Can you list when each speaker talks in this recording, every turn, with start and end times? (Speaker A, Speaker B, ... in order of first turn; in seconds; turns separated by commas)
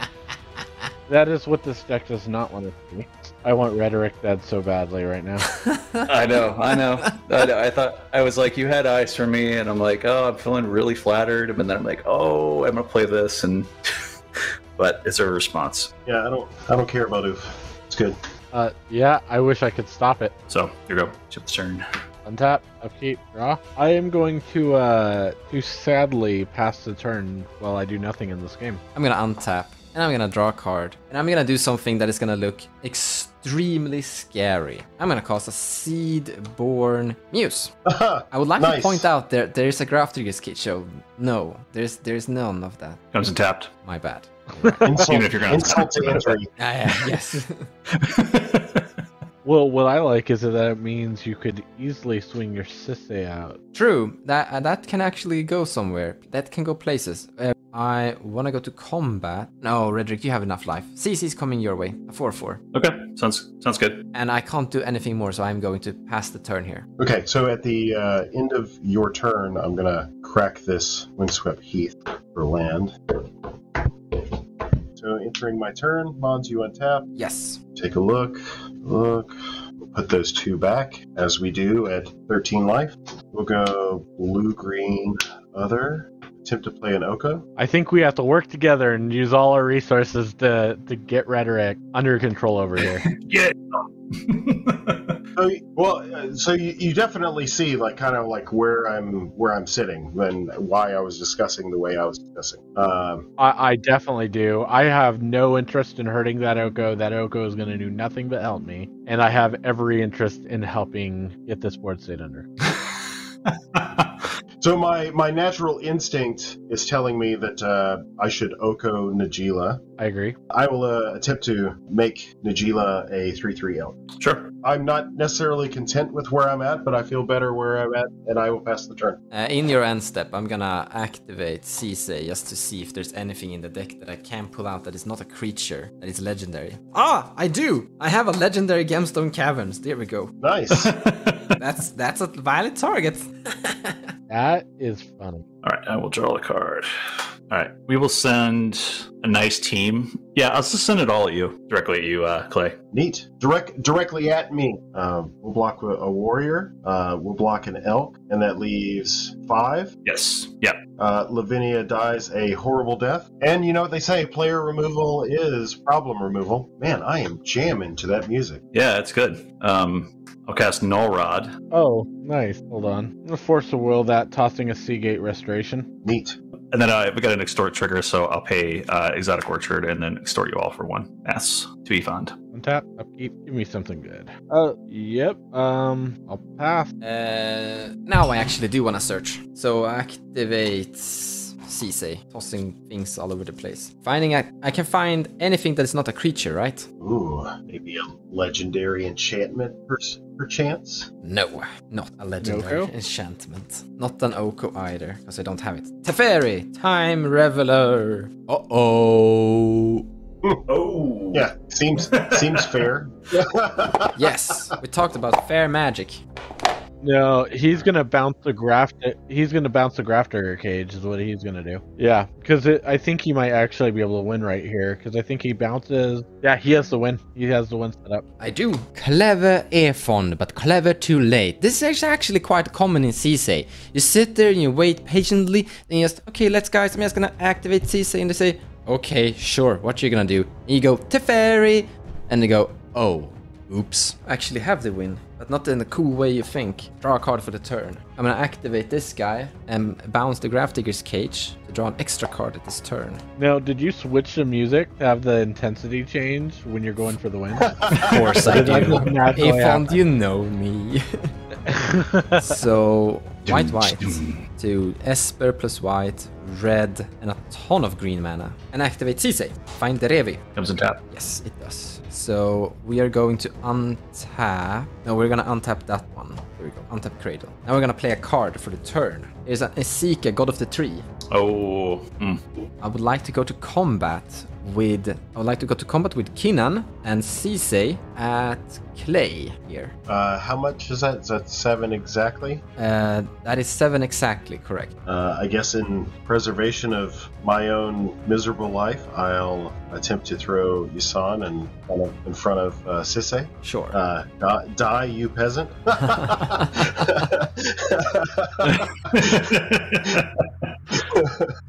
Speaker A: 1.1-5.5, Speaker B: 5.6-6.0, Speaker C: 6.0-13.7, Speaker C: 14.4-15.9, Speaker D: 16.1-18.2, Speaker A: 18.5-20.3, Speaker C: 20.5-21.9, Speaker A: 22.2-28.8, Speaker B: 28.9-37.7, Speaker D: 37.9-39.1, Speaker B: 38.3-43.0, Speaker C: 43.1-43.7, Speaker B: 43.9-44.9, Speaker D: 44.8-46.5, Speaker C: 45.0-46.3, Speaker B: 46.6-47.7, Speaker C: 48.0-48.9, Speaker A: 49.4-53.6, Speaker B: 53.7-62.6, Speaker C: 62.7-64.0, Speaker B: 64.1-66.9, Speaker D: 67.0-73.3, Speaker D: 75.0-77.1, Speaker B: 77.2-77.6, Speaker D: 77.8-79.4, Speaker D: 79.9-87.5, Speaker A: 87.6-93.1, Speaker C: 92.8-95.2, Speaker D: 95.4-103.3, Speaker A: 103.4-112.5, Speaker C: 113.8-114.1, Speaker D: 114.6-119.8, Speaker A: 120.0-120.4, Speaker D: 120.5-124.0, Speaker C: 124.2-124.5, Speaker D: 124.6-129.2, Speaker B: 129.3-140.3, Speaker D: 140.4-141.0, Speaker C: 140.8-141.4, Speaker B: 141.6-144.1, Speaker A: 144.3-145.4, Speaker C: 145.6-152.8, Speaker D: 152.9-159.9, Speaker C: 160.1-160.8, Speaker D: 161.0-168.6, Speaker C: 168.7-171.5, Speaker A: 171.7-175.9, Speaker D: 176.1-176.4, Speaker C: 176.7-182.3, Speaker A: 182.5-186.9, Speaker B: 187.0-196.9, Speaker D: 197.0-201.1, Speaker B: 201.2-210.0, Speaker A: 202.4-202.9, Speaker C: 210.7-211.5, Speaker D: 211.3-214.2, Speaker C: 212.0-212.7, Speaker B: 214.2-216.2, Speaker A: 217.0-228.2, Speaker B: 228.4-253.2, Speaker A: 253.4-259.9, Speaker D: 257.7-258.2, Speaker B: 258.0-261.3, Speaker A: 261.7-262.4, Speaker B: 262.4-270.4, Speaker C: 263.5-264.4, Speaker C: 270.6-271.0, Speaker B: 271.1-281.1, Speaker C: 281.3-282.4, Speaker B: 282.8-289.9, Speaker D: 290.1-292.6, Speaker B: 292.8-294.9, Speaker D: 295.1-309.3, Speaker B: 303.6-304.0, Speaker C: 308.7-310.4, Speaker D: 311.1-311.5